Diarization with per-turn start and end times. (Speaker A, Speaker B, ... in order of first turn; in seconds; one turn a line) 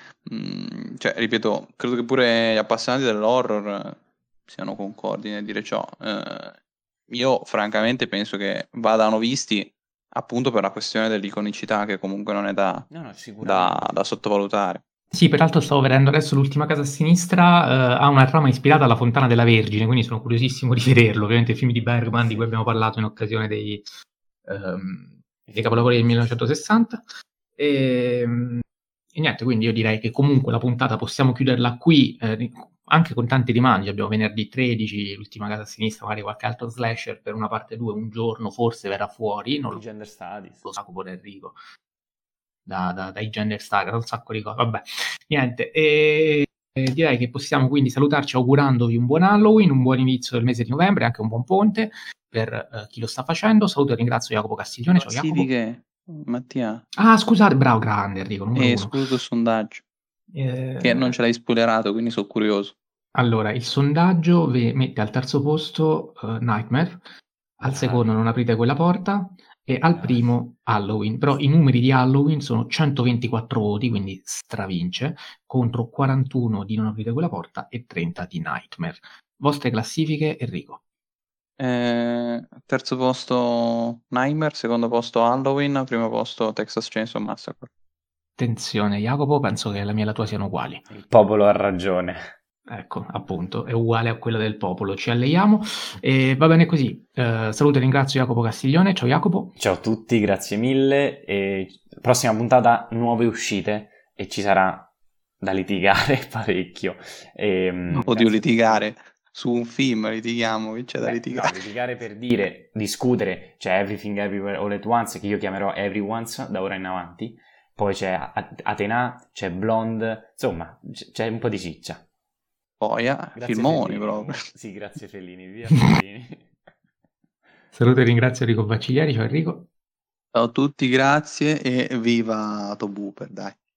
Speaker A: 0.3-6.6
Speaker A: 7.1-12.9
Speaker B: 12.9-13.9
Speaker A: 13.4-14.8
Speaker C: 15.1-23.8
Speaker B: 22.1-22.5
Speaker C: 24.4-27.0
Speaker B: 25.5-26.4
Speaker C: 27.6-28.6
Speaker C: 29.1-39.8
Speaker B: 39.7-40.7
Speaker C: 40.6-41.6
Speaker C: 42.6-55.5
Speaker A: 54.9-56.8
Speaker C: 57.0-58.9
Speaker A: 58.5-59.8
Speaker C: 60.3-61.1
Speaker A: 60.8-62.7
Speaker C: 63.1-67.0
Speaker C: 67.6-80.8
Speaker B: 67.6-68.0
Speaker B: 69.9-70.3
Speaker A: 81.6-87.7
Speaker C: 88.4-90.8
Speaker B: 90.9-92.3
Speaker C: 92.7-99.5
Speaker B: 99.6-104.9
Speaker B: 105.4-108.9
Speaker A: 108.0-111.6
Speaker B: 111.0-122.0
Speaker A: 122.8-124.5
Speaker B: 123.4-126.5
Speaker C: 127.7-129.7
Speaker A: 130.3-133.6